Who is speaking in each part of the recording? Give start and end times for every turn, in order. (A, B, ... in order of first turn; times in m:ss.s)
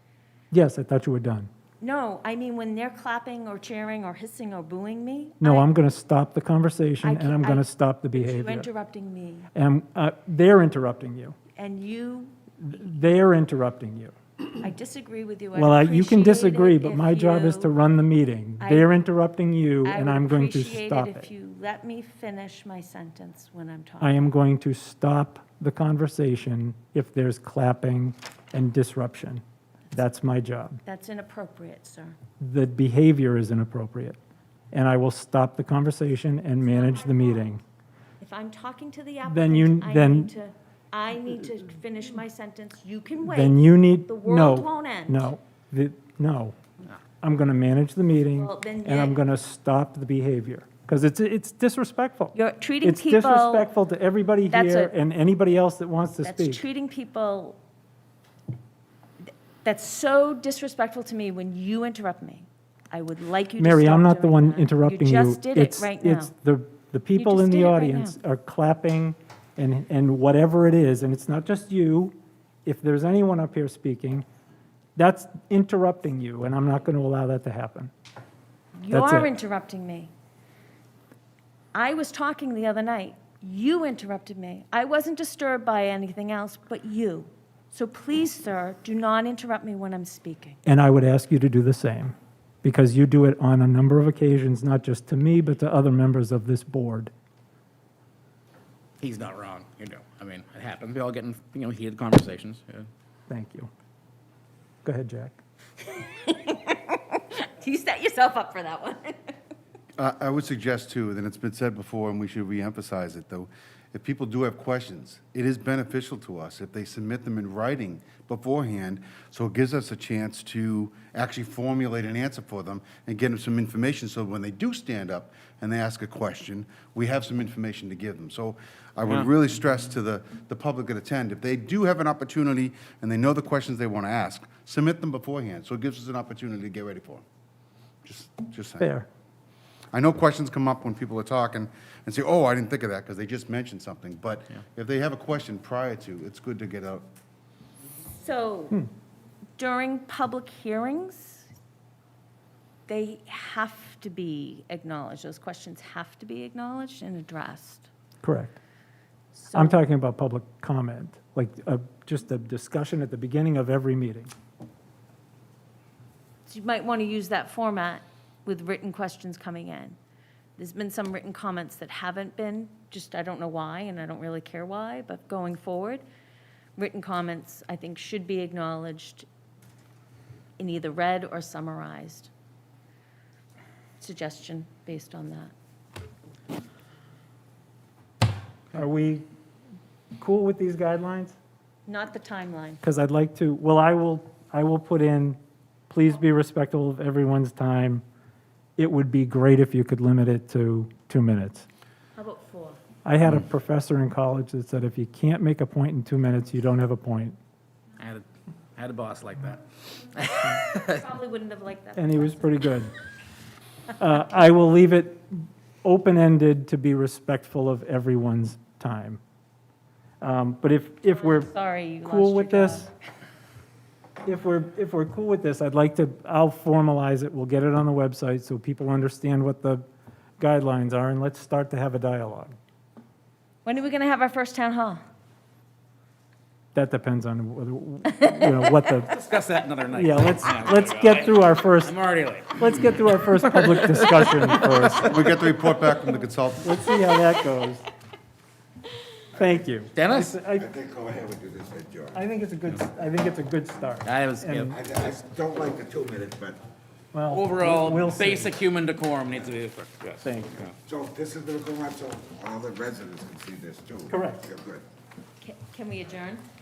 0:00.5-0:01.5 A
0:01.8-0:05.7 B
0:05.4-0:08.7 A
0:07.0-0:09.5 B
0:09.6-0:11.4 A
0:11.6-0:12.4 B
0:12.6-0:14.2 A
0:14.6-0:17.7 B
0:15.6-0:21.3 A
0:18.6-0:19.0 B
0:19.8-0:24.3 B
0:24.0-0:30.8 A
0:30.8-0:32.2 B
0:32.4-0:34.2 A
0:34.7-0:37.6 A
0:36.6-0:37.6 B
0:38.2-0:45.3 B
0:39.3-0:40.3 A
0:43.3-0:46.6 A
0:47.2-0:56.6 A
0:48.2-0:49.2 B
0:52.3-0:53.7 B
0:54.5-0:54.9 B
0:56.2-0:57.6 B
0:59.3-1:06.3 B
1:03.6-1:12.1 A
1:07.2-1:08.2 B
1:12.7-1:14.3 A
1:15.0-1:17.9 A
1:18.8-1:20.1 B
1:18.9-1:19.3 A
1:21.7-1:30.6 B
1:30.7-1:37.1 A
1:39.0-1:42.9 C
1:43.3-1:43.7 A
1:44.8-1:45.4 A
1:45.8-1:49.4 B
1:50.0-2:17.2 D
2:18.0-2:18.9 D
2:18.8-2:19.1 A
2:19.9-2:27.1 D
2:28.1-2:28.8 B
2:29.6-2:31.5 B
2:32.9-2:37.9 B
2:38.2-2:38.6 A
2:39.3-2:39.8 B
2:39.5-2:44.3 A
2:46.5-2:50.0 B
2:50.6-2:56.0 B
2:56.8-2:59.3 B
3:00.6-3:02.3 B
3:04.0-3:05.5 B
3:08.7-3:09.2 A
3:10.2-3:11.4 A
3:11.9-3:12.8 B
3:12.8-3:15.4 A
3:15.9-3:18.0 A
3:18.8-3:21.7 A
3:22.2-3:22.8 B
3:23.0-3:27.4 A
3:28.0-3:31.0 C
3:30.5-3:32.4 B
3:32.0-3:32.9 A
3:34.0-3:39.2 A
3:40.2-3:41.5 A
3:41.1-3:42.9 B
3:42.0-3:42.9 A
3:44.2-3:49.8 A
3:50.4-3:52.6 A
3:53.6-3:55.0 B
3:56.8-3:59.1 A
3:58.2-3:58.9 B
3:59.1-4:04.8 C
3:59.9-4:01.9 A
4:02.6-4:05.3 A
4:05.0-4:06.8 D
4:06.6-4:07.8 A
4:09.4-4:10.7 A
4:10.0-4:10.4 C
4:10.6-4:12.2 E
4:12.1-4:14.8 A
4:14.1-4:14.8 C
4:14.7-4:16.6 E
4:17.1-4:18.5 A
4:17.3-4:20.8 C
4:20.2-4:20.6 A
4:20.8-4:24.8 E
4:24.1-4:24.5 A
4:25.4-4:26.4 B